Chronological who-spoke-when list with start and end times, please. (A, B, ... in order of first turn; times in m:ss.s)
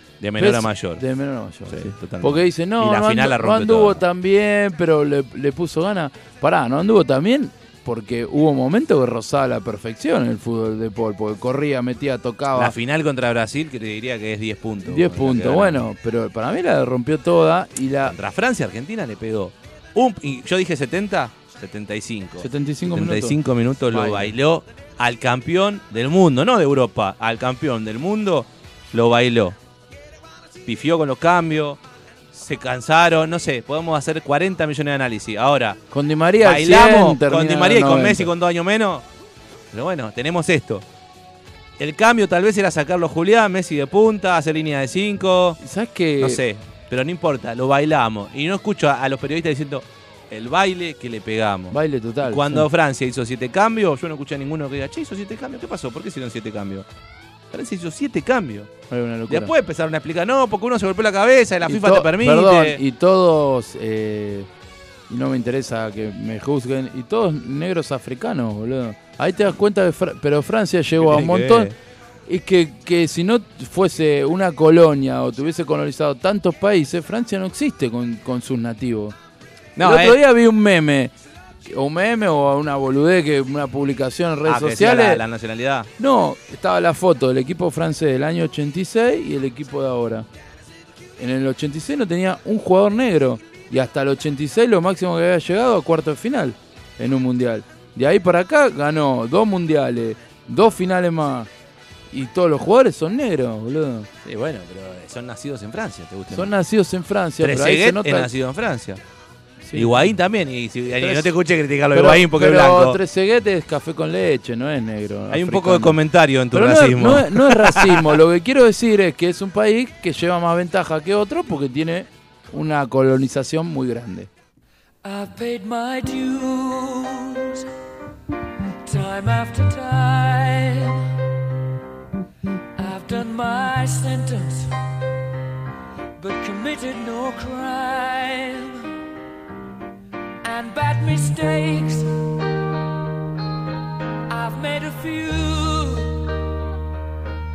0:00.2-0:01.0 A
0:00.4-0:12.7 B
0:01.7-0:04.0 A
0:12.5-0:15.8 A
0:14.9-0:18.1 B
0:18.0-0:29.6 A
0:22.4-0:23.4 B
0:23.9-0:24.3 B
0:30.6-0:31.8 A
0:32.3-0:35.8 A
0:35.9-0:38.3 B
0:36.4-0:39.0 A
0:39.7-0:40.8 A
0:41.8-0:45.6 A
0:45.6-0:46.4 B
0:46.2-0:56.8 A
0:51.7-0:52.7 B
0:57.5-0:58.7 A
0:58.9-0:59.5 B
0:59.3-1:02.8 A
1:01.6-1:04.5 B
1:05.1-1:11.7 B
1:11.0-1:11.7 A
1:12.3-1:19.2 B
1:19.8-1:20.2 A
1:19.8-1:21.1 B
1:21.6-1:25.2 B
1:24.4-1:25.9 A
1:26.0-1:30.3 B
1:31.2-1:41.5 B
1:42.1-1:44.1 B
1:44.2-1:46.5 A
1:46.3-1:48.3 B
1:47.4-1:49.0 A
1:49.6-1:50.1 B
1:49.7-1:53.0 A
1:50.9-1:51.3 B
1:51.9-1:56.0 B
1:55.3-1:58.2 A
1:56.5-2:04.3 B
2:05.0-2:07.6 C
2:08.8-2:11.0 C
2:12.8-2:14.7 C
2:16.2-2:18.8 C
2:20.4-2:22.1 C
2:24.3-2:26.3 C